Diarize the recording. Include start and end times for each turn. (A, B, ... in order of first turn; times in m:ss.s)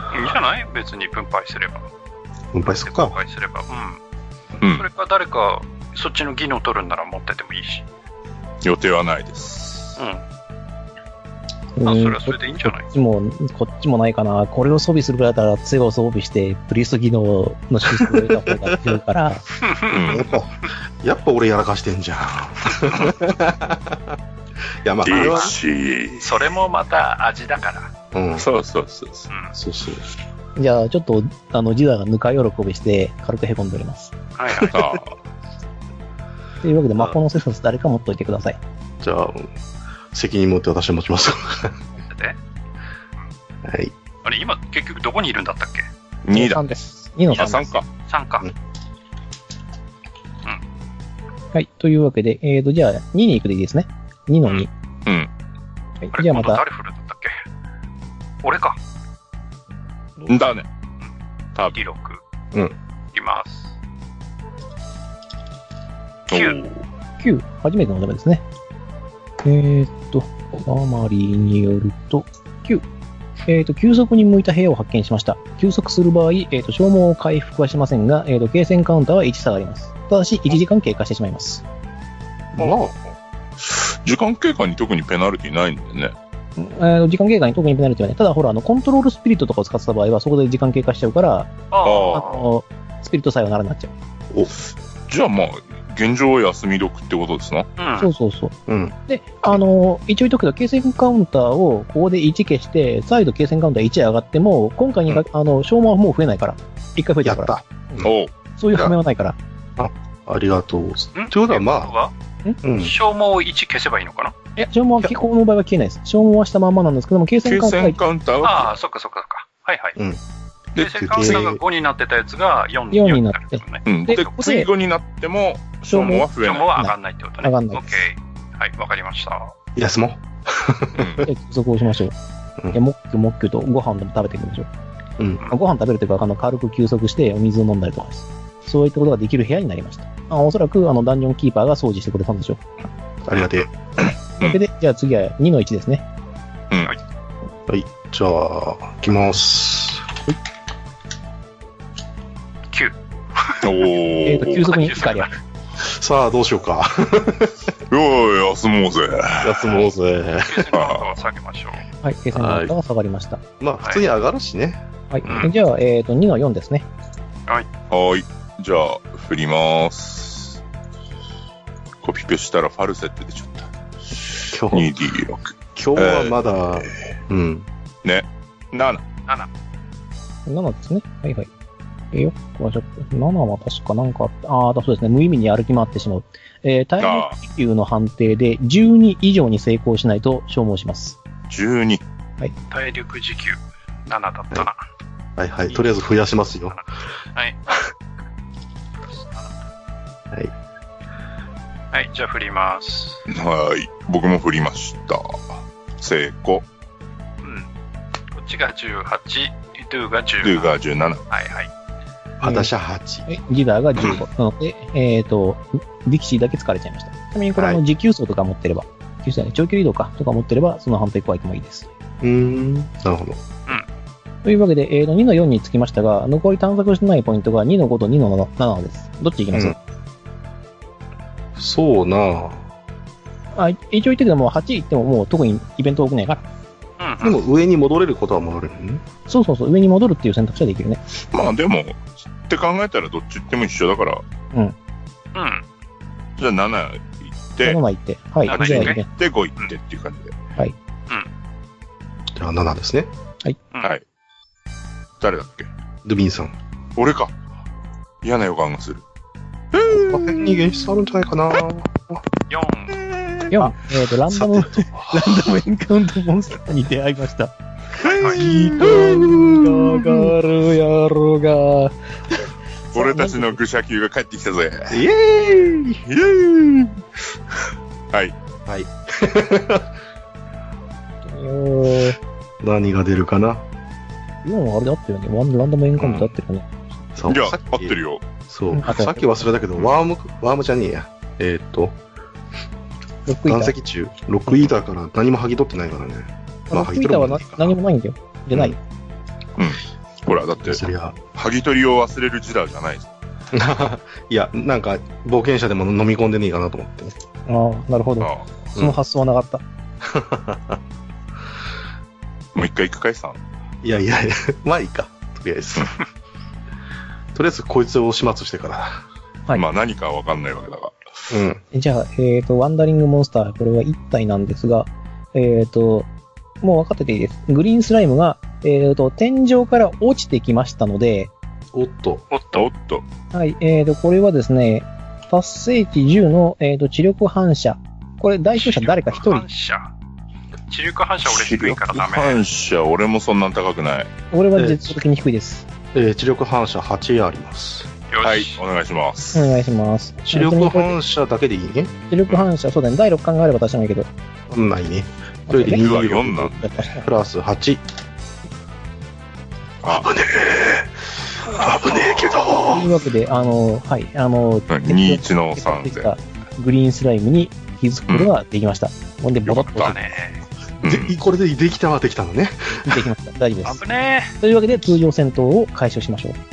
0:00.1-0:01.9 A
0:02.5-0:03.2 B
0:02.8-0:04.0 A
0:04.6-0:07.8 A
0:04.6-0:04.9 C
0:08.6-0:10.0 C
0:10.0-0:10.2 A
0:11.8-0:19.4 D
0:11.8-0:12.9 A
0:19.6-0:20.2 A
0:19.9-0:20.3 C
0:20.0-0:24.2 B
0:24.8-0:25.5 B
0:25.0-0:26.3 C
0:25.1-0:25.5 A
0:26.2-0:27.9 A
0:28.1-0:28.5 B
0:28.4-0:29.3 C
0:29.5-0:30.0 B
0:30.6-0:34.1 D
0:34.4-0:34.9 A
0:34.6-0:35.1 C
0:36.6-0:38.6 D
0:39.0-0:39.5 B
0:40.1-0:41.8 B
0:42.0-0:42.4 A
0:43.6-0:43.9 B
0:44.2-0:45.9 A
0:46.2-0:46.7 C
0:46.3-0:47.8 D
0:47.3-0:47.9 C
0:48.0-0:48.5 A
0:51.5-0:54.7 D
0:56.0-0:56.6 D
0:56.1-0:57.4 A
0:58.4-0:58.8 A
1:00.3-1:00.6 C
1:01.5-1:01.8 C
1:01.7-1:02.2 A
1:03.1-1:03.7 A
1:06.3-1:06.8 C
1:06.3-1:06.6 A
1:07.2-1:08.4 D
1:09.4-1:12.8 D
1:13.5-1:21.6 D
1:22.6-1:22.9 B
1:22.6-1:22.9 A
1:23.6-1:26.1 C
1:26.6-1:31.6 D
1:31.7-1:32.4 A
1:31.8-1:32.2 C
1:32.1-1:33.9 D
1:35.1-1:37.7 C
1:37.8-1:38.1 A
1:38.0-1:38.6 D
1:38.7-1:38.9 B
1:39.1-1:48.0 D
1:47.2-1:48.1 B
1:48.0-1:48.3 C
1:48.6-1:49.4 D
1:49.8-1:51.9 B
1:51.1-1:52.1 A
1:52.6-1:52.9 B
1:52.7-1:54.3 A
1:54.6-1:58.0 D
1:57.4-1:58.7 C
1:58.4-2:00.0 A
2:00.0-2:00.2 B
2:00.8-2:01.6 C
2:00.8-2:04.4 A
2:01.0-2:01.6 B
2:02.9-2:04.7 D
2:03.8-2:06.8 C
2:05.9-2:08.0 D
2:06.1-2:09.5 A
2:09.7-2:11.3 B
2:11.0-2:11.3 C
2:11.2-2:12.1 D
2:12.7-2:14.7 D
2:15.4-2:22.6 D
2:23.2-2:23.7 B
2:24.4-2:26.0 D
2:27.7-2:30.2 B
2:32.7-2:33.9 A
2:33.6-2:34.7 C
2:34.2-2:35.3 D
2:34.6-2:35.3 A
2:35.8-2:37.7 B
2:37.9-2:39.8 C
2:39.4-2:40.8 B
2:40.4-2:41.8 A
2:40.7-2:41.1 C
2:42.0-2:43.4 D
2:42.3-2:42.7 B
2:43.6-2:45.5 B
2:45.1-2:46.9 D
2:45.2-2:45.5 A
2:47.9-2:50.6 C
2:52.0-2:56.3 C
2:54.5-2:54.9 B
2:55.7-2:57.7 B
2:58.0-2:59.0 C
3:00.4-3:01.5 D
3:02.1-3:11.2 D
3:07.0-3:07.4 C
3:11.5-3:12.0 C
3:12.7-3:14.8 A
3:15.4-3:16.8 B
3:17.3-3:17.8 A
3:19.0-3:19.5 A
3:21.9-3:23.2 A
3:23.3-3:26.6 C
3:28.3-3:30.7 A
3:30.4-3:31.2 C
3:31.3-3:31.7 A
3:32.4-3:33.3 B
3:32.4-3:32.7 D
3:33.3-3:41.9 D
3:37.6-3:37.8 B
3:42.2-3:43.4 B
3:44.4-3:49.8 D
3:51.6-3:52.6 B
3:53.6-3:56.4 D
3:57.0-3:57.4 A
3:57.2-3:59.0 B
3:59.3-4:01.0 D
4:01.2-4:04.2 C
4:05.3-4:05.6 A
4:06.4-4:07.8 C
4:07.6-4:09.1 D
4:08.5-4:09.0 A
4:08.5-4:10.3 C
4:12.4-4:13.1 B
4:15.2-4:15.7 C
4:16.0-4:16.5 B
4:17.0-4:17.3 C
4:18.2-4:19.0 C
4:19.8-4:20.4 C
4:19.9-4:22.2 B
4:22.5-4:23.0 A
4:23.5-4:32.0 D
4:24.3-4:25.2 B
4:28.0-4:28.4 A
4:28.2-4:30.3 B
4:32.9-4:33.6 D
4:32.9-4:35.0 C
4:34.9-4:36.0 B
4:36.0-4:37.0 C
4:38.6-4:39.9 B
4:41.2-4:42.2 D
4:42.6-4:43.6 B
4:44.4-4:46.9 D
4:47.1-4:48.0 B
4:47.3-4:48.2 C
4:48.5-4:52.0 B
4:48.7-4:49.2 D
4:53.2-4:53.7 D
4:53.4-4:57.7 B
4:56.7-4:58.8 D
4:58.5-4:58.8 B
4:59.6-5:00.8 C
5:00.6-5:01.2 B
5:01.3-5:03.1 C
5:03.5-5:07.1 B
5:07.5-5:09.6 D
5:08.2-5:08.5 C
5:10.0-5:10.8 B
5:12.5-5:13.4 C
5:13.8-5:15.9 B
5:17.3-5:19.0 B
5:19.5-5:21.0 C
5:21.3-5:21.6 B
5:21.7-5:26.1 D
5:26.6-5:31.3 D
5:31.7-5:32.2 B
5:32.3-5:32.7 A
5:32.5-5:33.0 C
5:33.3-5:39.4 D
5:38.5-5:39.9 A
5:40.7-5:42.4 A
5:41.2-5:44.1 C
5:44.3-5:45.7 D
5:44.6-5:45.0 B
5:45.9-5:47.9 B
5:48.1-5:48.6 A
5:48.2-5:49.5 C
5:49.3-5:50.9 D
5:50.3-5:51.9 B
5:52.1-5:54.1 D
5:54.5-5:57.8 B
5:55.5-5:57.1 D
5:55.6-5:56.8 C
5:59.8-6:03.0 B
6:02.7-6:09.9 D
6:04.7-6:06.1 C
6:09.5-6:10.0 C
6:09.7-6:10.4 A
6:10.8-6:13.0 B
6:10.8-6:11.1 C
6:12.8-6:13.8 D
6:13.6-6:14.4 A
6:14.4-6:16.4 D